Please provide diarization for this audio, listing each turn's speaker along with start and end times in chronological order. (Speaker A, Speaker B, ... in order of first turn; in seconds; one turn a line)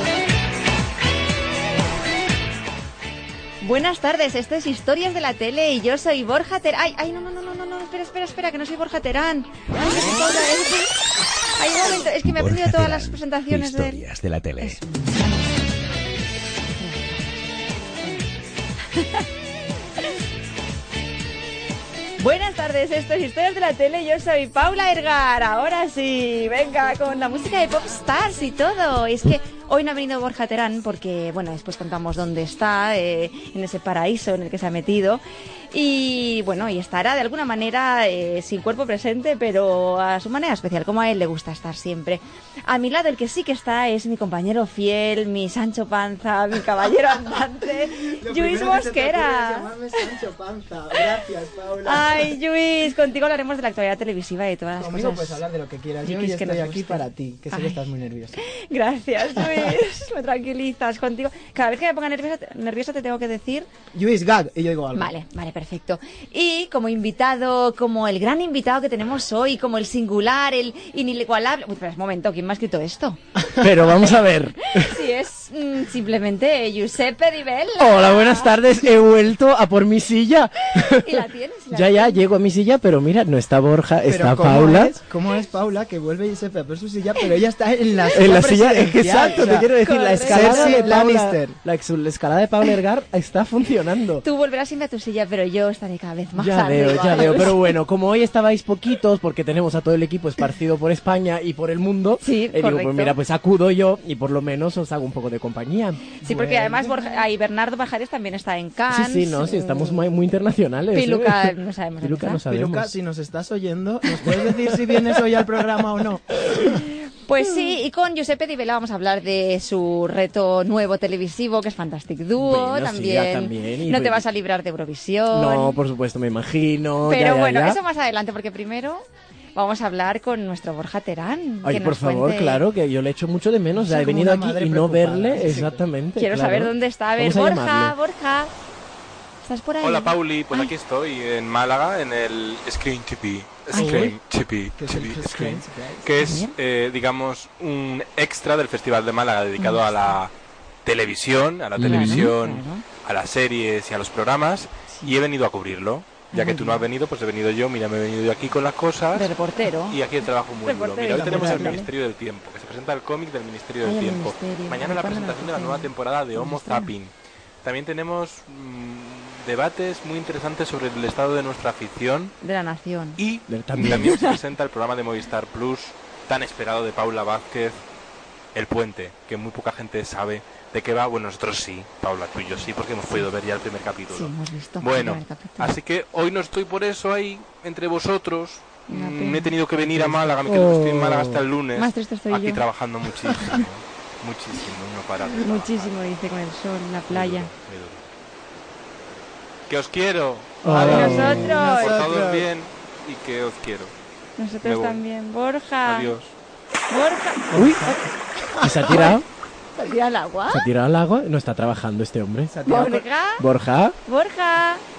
Speaker A: 3.6-11.0
Speaker A: 11.6-14.0
Speaker B: 12.2-14.8
Speaker A: 14.6-14.8
Speaker A: 16.8-18.3
Speaker A: 18.9-19.3
Speaker A: 22.2-49.7
Speaker C: 48.0-52.3
Speaker A: 51.8-55.4
Speaker C: 54.8-58.4
Speaker A: 56.0-57.9
Speaker A: 58.4-63.7
Speaker C: 59.4-59.7
Speaker C: 63.9-65.1
Speaker A: 65.0-73.2
Speaker D: 73.6-75.0
Speaker A: 74.7-78.6
Speaker D: 77.8-85.0
Speaker A: 80.8-82.2
Speaker C: 84.1-91.6
Speaker D: 88.1-94.3
Speaker A: 89.5-90.9
Speaker A: 94.2-97.7
Speaker D: 96.3-106.1
Speaker A: 102.2-103.2
Speaker A: 106.2-110.0
Speaker C: 106.2-107.2
Speaker D: 108.9-112.9
Speaker A: 110.9-112.4
Speaker C: 112.5-116.3
Speaker D: 114.1-115.8
Speaker D: 116.4-116.8
Speaker A: 117.2-125.8
Speaker D: 122.4-124.2
Speaker D: 125.3-127.8
Speaker A: 127.0-132.6
Speaker D: 131.6-137.9
Speaker C: 133.8-135.8
Speaker A: 136.2-138.5
Speaker A: 139.4-140.7
Speaker E: 139.8-150.3
Speaker C: 143.7-144.2
Speaker D: 143.8-144.1
Speaker C: 144.8-146.1
Speaker A: 146.2-146.6
Speaker A: 149.6-150.2
Speaker E: 150.8-159.3
Speaker D: 151.8-152.3
Speaker A: 151.8-152.8
Speaker A: 156.3-156.8
Speaker A: 159.2-161.9
Speaker E: 159.9-167.1
Speaker C: 161.1-161.8
Speaker A: 163.8-166.9
Speaker E: 167.6-172.3
Speaker A: 172.4-173.2
Speaker E: 173.2-177.8
Speaker D: 173.5-174.2
Speaker A: 173.8-174.4
Speaker E: 178.5-195.9
Speaker A: 184.1-185.7
Speaker A: 188.9-189.5
Speaker D: 189.8-191.4
Speaker A: 191.8-192.6
Speaker A: 195.4-197.5
Speaker E: 197.1-198.0
Speaker E: 199.7-203.9
Speaker D: 200.6-201.6
Speaker C: 200.7-202.5
Speaker A: 200.8-202.0
Speaker A: 204.4-206.1
Speaker E: 204.6-205.0
Speaker E: 205.8-206.3
Speaker A: 206.9-207.9
Speaker D: 207.5-207.9
Speaker C: 207.6-208.0
Speaker C: 208.6-209.1
Speaker D: 208.6-209.3
Speaker A: 208.9-209.2
Speaker A: 209.8-210.7
Speaker D: 210.5-214.0
Speaker C: 212.5-213.0
Speaker A: 212.7-213.4
Speaker A: 214.1-214.8